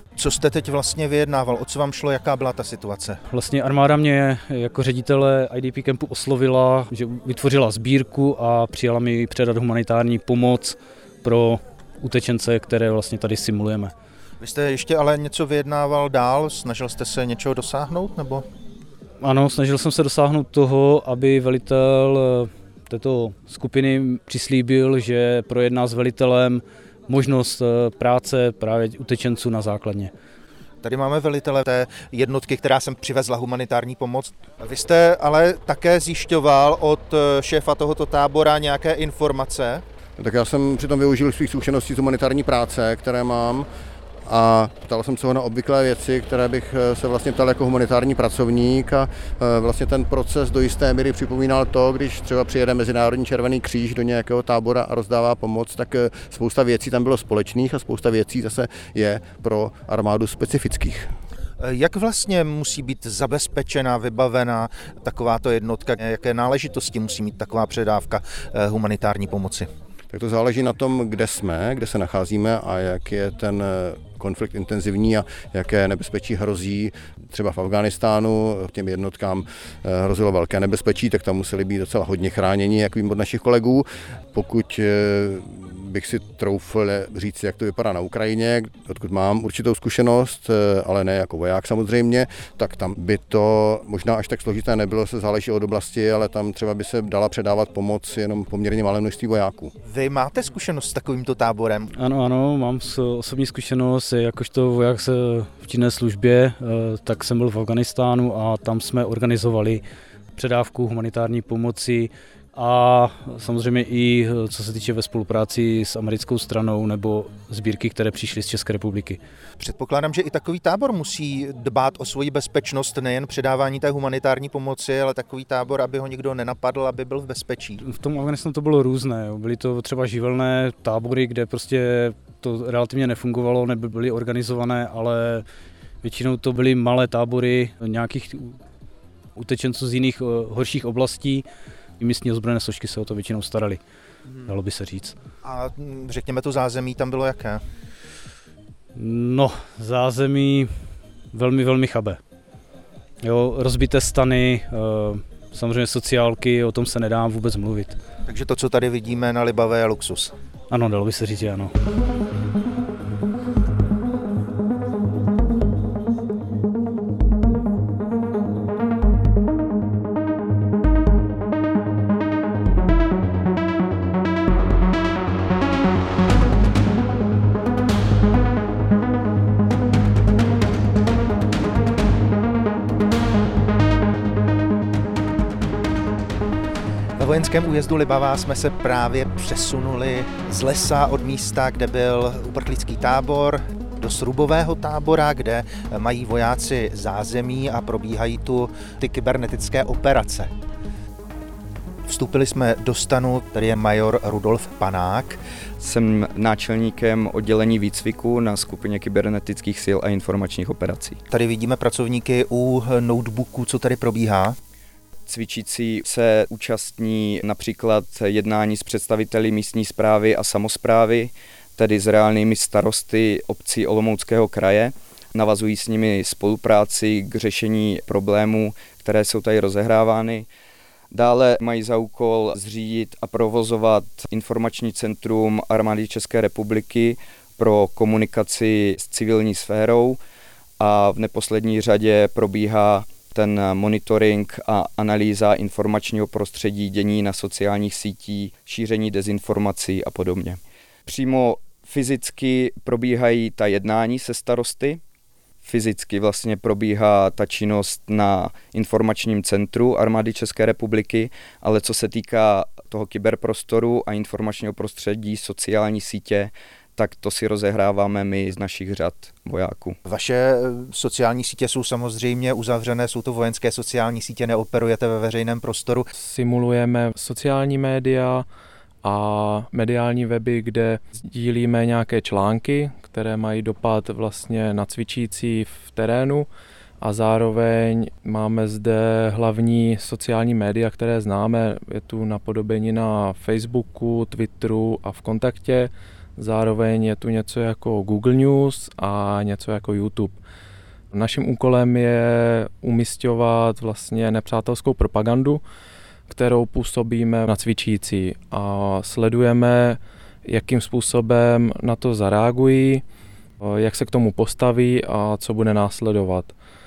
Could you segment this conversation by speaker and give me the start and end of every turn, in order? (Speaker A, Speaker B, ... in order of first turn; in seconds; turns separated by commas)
Speaker A: 0.2-3.2, Speaker B: 3.3-13.9, Speaker A: 14.4-18.4, Speaker B: 19.2-30.1, Speaker A: 30.8-39.8, Speaker C: 40.2-43.7, Speaker C: 44.3-61.1, Speaker A: 61.6-69.7, Speaker C: 70.1-99.7, Speaker A: 99.9-101.9, Speaker B: 102.0-109.8, Speaker B: 110.4-119.2, Speaker A: 119.6-127.8, Speaker B: 127.8-135.4, Speaker B: 136.0-138.6, Speaker B: 139.4-141.4, Speaker B: 142.0-143.8, Speaker B: 144.5-145.2, Speaker A: 145.4-147.6, Speaker B: 148.9-150.7, Speaker B: 151.3-152.2, Speaker B: 153.2-158.0, Speaker A: 158.3-160.3, Speaker B: 160.7-161.7, Speaker A: 187.2-200.5, Speaker A: 202.1-205.4, Speaker D: 205.8-211.2, Speaker A: 211.3-214.6, Speaker D: 215.3-230.5, Speaker D: 231.1-240.2, Speaker D: 240.8-255.0, Speaker D: 255.6-270.0, Speaker A: 270.1-276.1, Speaker E: 276.1-278.5, Speaker E: 279.0-286.5, Speaker E: 287.0-300.4, Speaker E: 301.1-305.6, Speaker E: 306.3-313.0, Speaker E: 313.6-316.5